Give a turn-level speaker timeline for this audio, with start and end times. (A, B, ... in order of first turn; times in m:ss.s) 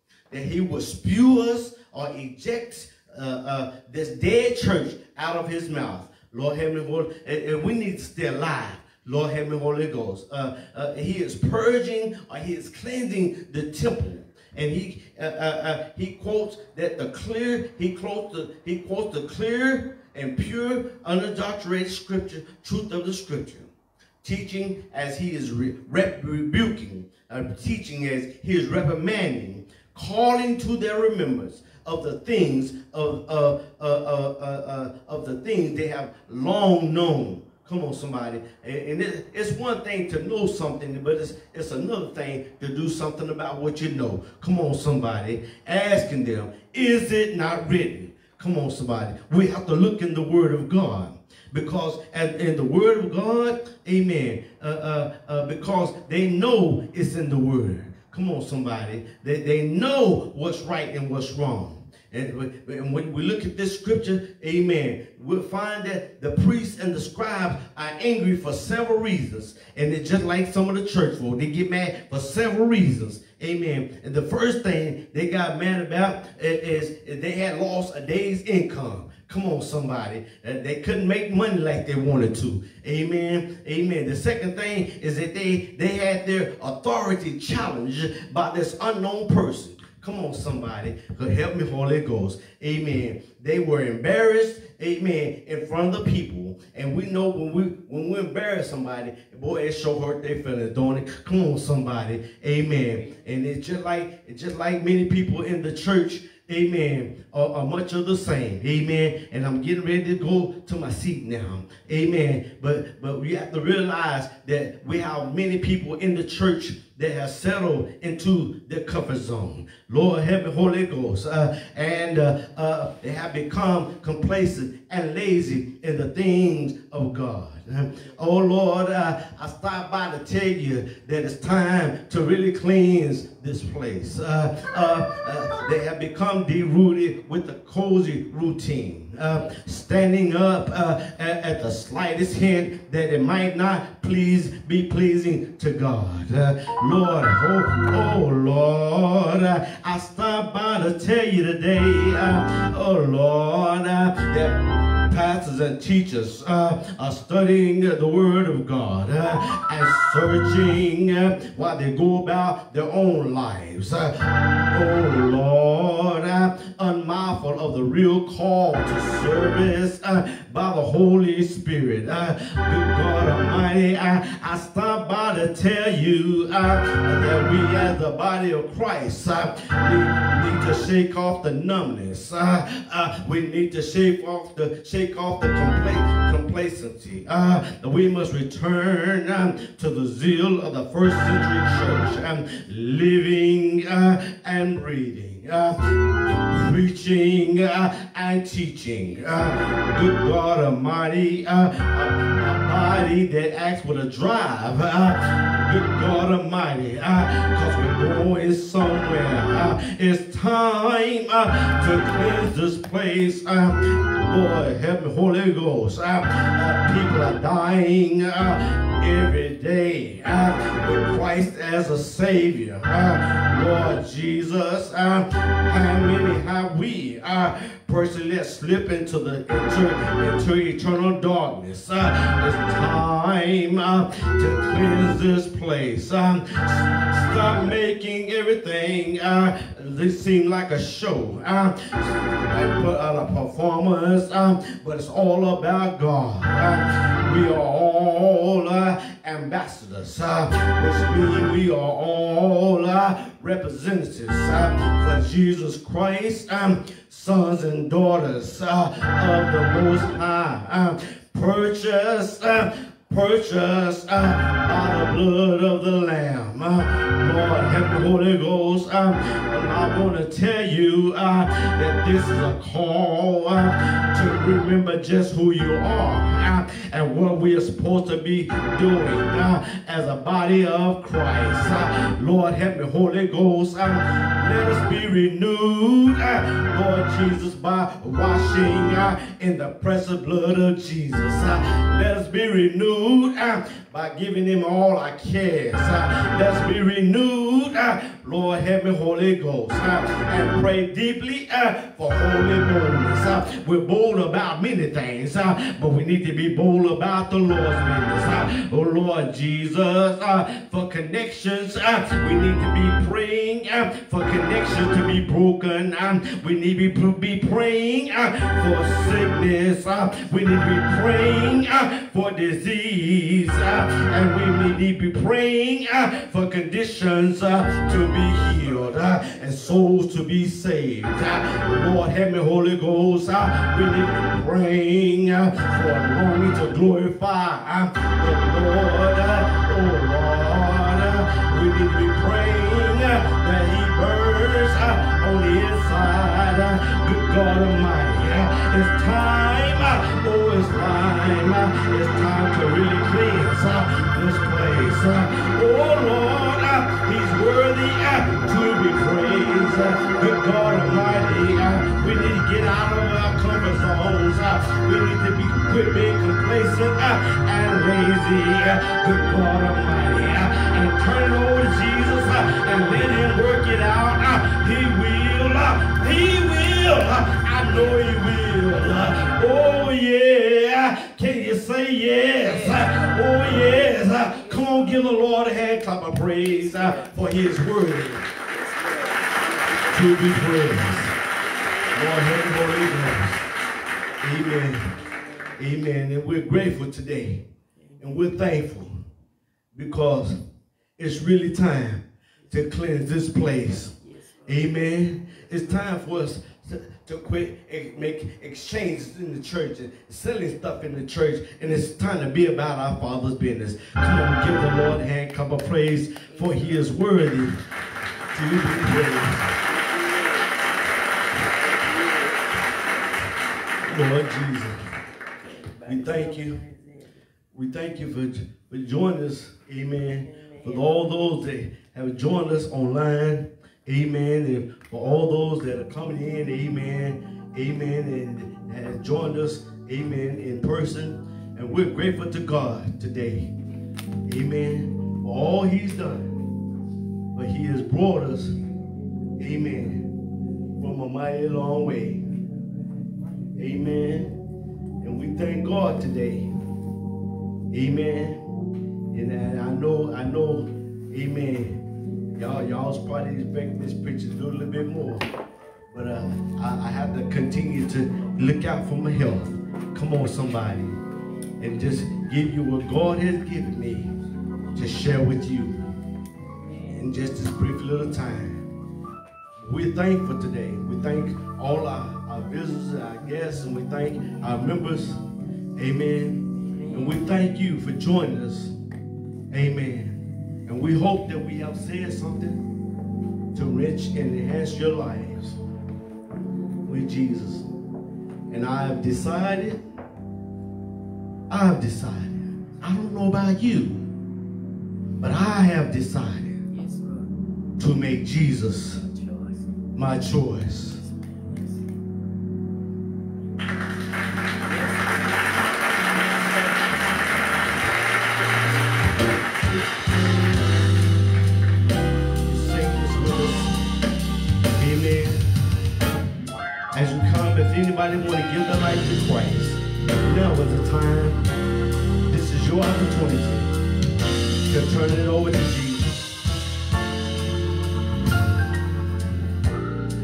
0:00.3-0:23.7 A
0:24.2-6:28.3 A
6:22.4-6:25.0 B
6:26.6-6:27.3 B
6:28.3-6:30.3 B
6:29.9-6:31.2 A
6:31.6-6:32.5 B
6:31.9-6:33.4 A
6:34.2-6:34.9 A
6:35.0-6:35.6 B
6:35.6-6:37.4 A
6:38.0-6:38.9 A
6:39.7-6:40.4 A
6:41.0-6:57.6 A
6:44.0-6:45.7 B
6:56.3-6:56.9 B
6:58.3-6:59.5 A
6:59.6-7:00.5 B
7:01.5-7:02.7 B
7:03.8-7:04.8 A
7:05.4-7:07.2 B
7:05.8-7:06.6 A
7:07.5-7:23.5 A
7:10.2-7:10.9 B
7:24.2-7:26.3 A
7:27.3-7:28.6 A
7:29.4-7:30.1 A
7:30.8-7:32.2 A
7:33.6-7:34.4 A
7:35.0-7:36.5 A
7:37.7-7:38.4 A
7:39.1-7:41.8 A
7:42.3-7:45.2 A
7:45.9-7:51.0 A
7:51.6-7:54.1 A
7:54.7-7:55.8 A
7:56.9-7:58.6 A
7:59.6-8:05.2 A
8:05.7-8:08.7 A
8:06.6-8:07.2 B
8:09.5-8:12.6 A
8:13.5-8:15.6 A
8:16.8-8:17.7 A
8:18.5-8:19.8 A
8:21.5-8:24.1 A
8:25.2-8:26.6 A
8:26.7-8:27.3 B
8:27.8-8:29.0 A
8:29.0-8:29.7 B
8:29.9-8:31.0 A
8:31.0-8:31.9 B
8:34.6-8:35.2 B
8:36.2-8:36.8 B
8:42.4-8:43.7 A
8:44.7-8:45.4 A
8:46.9-8:51.4 A
8:52.2-8:53.7 A
8:54.6-8:56.3 A